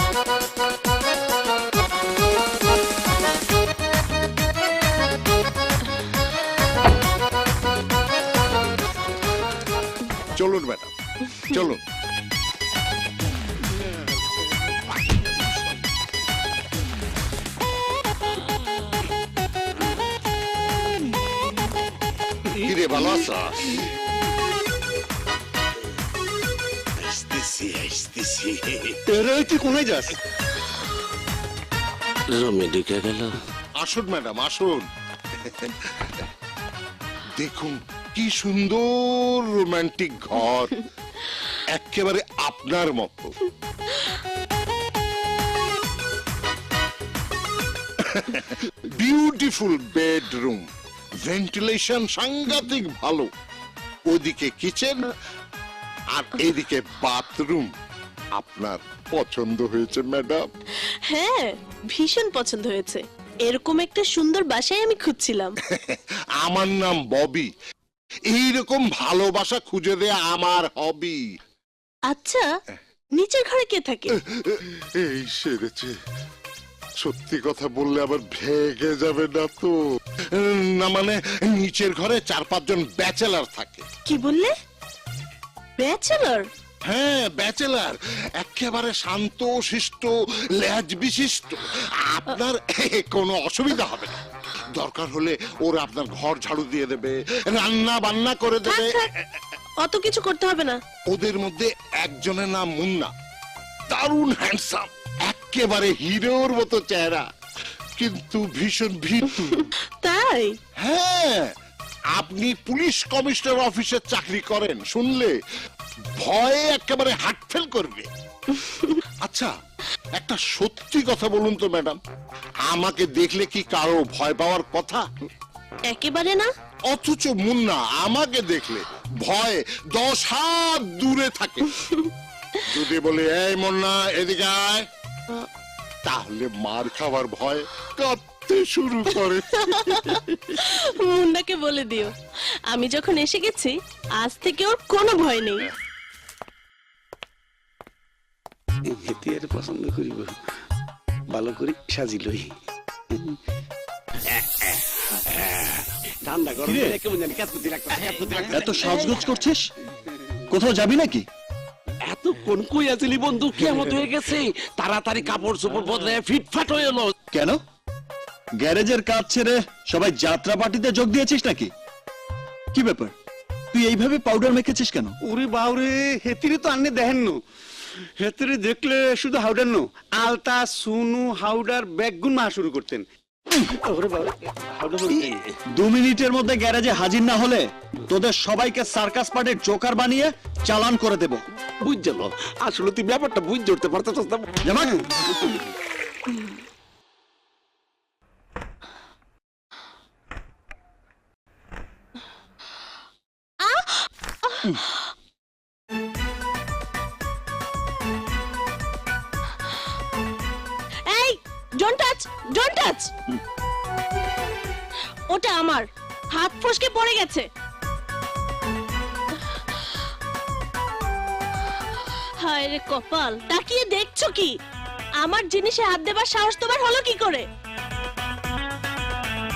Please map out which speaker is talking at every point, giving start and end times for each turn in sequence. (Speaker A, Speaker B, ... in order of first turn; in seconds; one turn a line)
Speaker A: 10.3-11.8
Speaker A: 22.6-23.8
Speaker A: 27.0-28.6
Speaker B: 27.5-27.7
Speaker B: 28.2-28.7
Speaker C: 29.1-30.1
Speaker B: 32.3-33.4
Speaker A: 33.8-34.9
Speaker A: 35.5-35.7
Speaker A: 37.3-40.9
Speaker A: 41.7-43.3
Speaker A: 48.0-50.6
Speaker A: 51.2-53.3
Speaker A: 54.1-55.1
Speaker A: 56.1-57.7
Speaker A: 58.4-60.4
Speaker D: 61.0-65.5
Speaker A: 65.7-67.5
Speaker A: 68.3-71.2
Speaker D: 72.1-72.5
Speaker D: 73.1-74.1
Speaker A: 74.3-75.9
Speaker A: 77.0-79.7
Speaker A: 80.3-83.8
Speaker D: 84.0-84.5
Speaker D: 85.8-86.5
Speaker A: 86.8-94.2
Speaker A: 94.7-99.0
Speaker D: 98.7-99.1
Speaker D: 99.8-100.8
Speaker A: 101.1-103.1
Speaker A: 103.9-107.2
Speaker A: 108.0-109.7
Speaker D: 110.0-110.5
Speaker A: 110.8-111.5
Speaker A: 112.1-115.3
Speaker A: 116.2-118.1
Speaker D: 118.6-118.9
Speaker A: 119.2-119.5
Speaker A: 120.2-122.0
Speaker A: 122.7-125.0
Speaker D: 125.9-126.5
Speaker A: 126.9-131.7
Speaker A: 132.7-134.9
Speaker A: 136.0-140.2
Speaker D: 139.6-142.1
Speaker D: 142.7-145.7
Speaker C: 148.8-150.4
Speaker C: 151.3-152.5
Speaker B: 154.3-159.2
Speaker E: 156.6-157.0
Speaker C: 158.2-158.5
Speaker E: 158.5-159.6
Speaker E: 160.5-161.2
Speaker B: 162.0-167.1
Speaker E: 167.3-167.6
Speaker E: 168.6-171.7
Speaker E: 172.7-173.1
Speaker E: 173.7-175.2
Speaker C: 175.2-177.4
Speaker C: 178.2-183.1
Speaker B: 183.9-185.5
Speaker C: 184.0-185.3
Speaker E: 185.8-191.4
Speaker B: 191.8-194.5
Speaker E: 194.6-195.0
Speaker D: 203.6-205.0
Speaker D: 211.1-213.1
Speaker D: 215.3-217.5
Speaker D: 222.4-224.5
Speaker D: 225.2-227.4